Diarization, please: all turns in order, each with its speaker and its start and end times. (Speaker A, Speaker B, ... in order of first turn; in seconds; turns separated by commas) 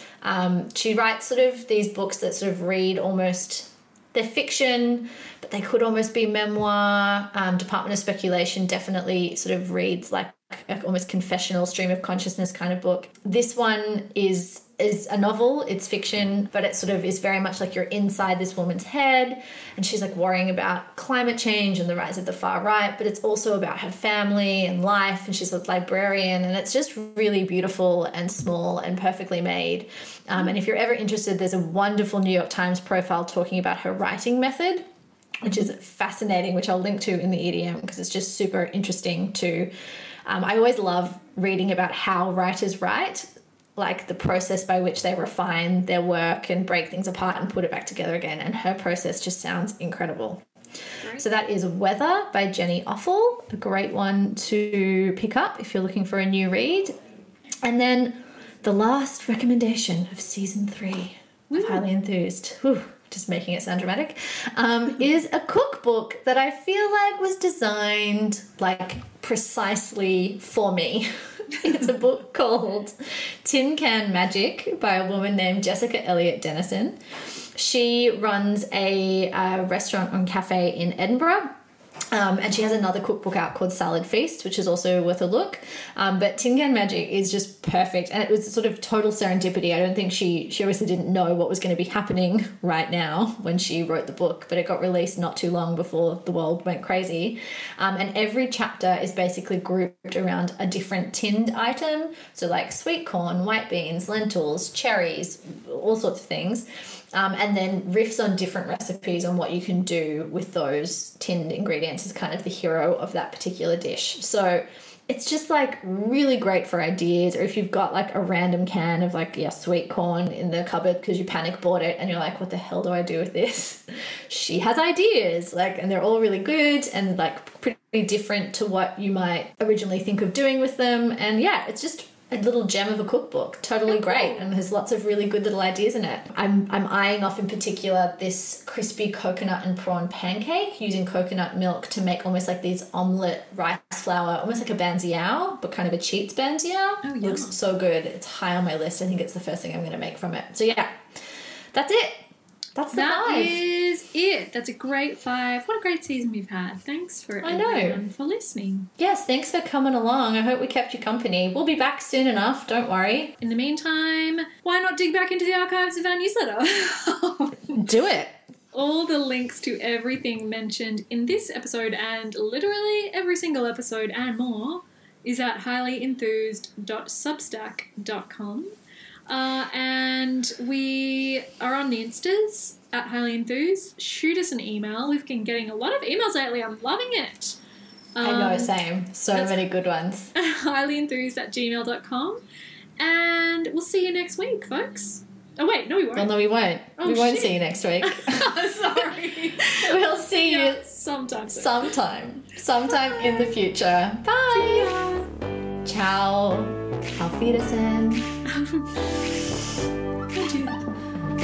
Speaker A: 0.2-34.9, Speaker A: 35.4-39.7, Speaker A: 40.3-50.5, Speaker B: 51.0-51.3, Speaker A: 51.2-57.0, Speaker A: 57.6-77.0, Speaker B: 61.5-61.8, Speaker A: 77.6-81.5, Speaker A: 82.1-151.0, Speaker B: 133.9-134.5, Speaker B: 147.0-147.6, Speaker A: 151.7-152.3, Speaker A: 152.8-153.6, Speaker B: 152.9-158.9, Speaker A: 157.4-158.0, Speaker A: 159.0-163.4, Speaker B: 163.4-167.8, Speaker A: 167.7-168.4, Speaker B: 168.7-178.7, Speaker B: 179.3-187.6, Speaker B: 188.2-188.7, Speaker A: 188.2-190.3, Speaker B: 189.3-189.6, Speaker B: 190.3-192.4, Speaker B: 193.0-196.3, Speaker A: 196.2-198.4, Speaker B: 197.0-201.9, Speaker A: 199.8-200.8, Speaker A: 201.5-204.9, Speaker B: 202.9-203.3, Speaker B: 204.2-205.3, Speaker A: 205.8-208.3, Speaker B: 208.5-209.2, Speaker B: 210.3-210.9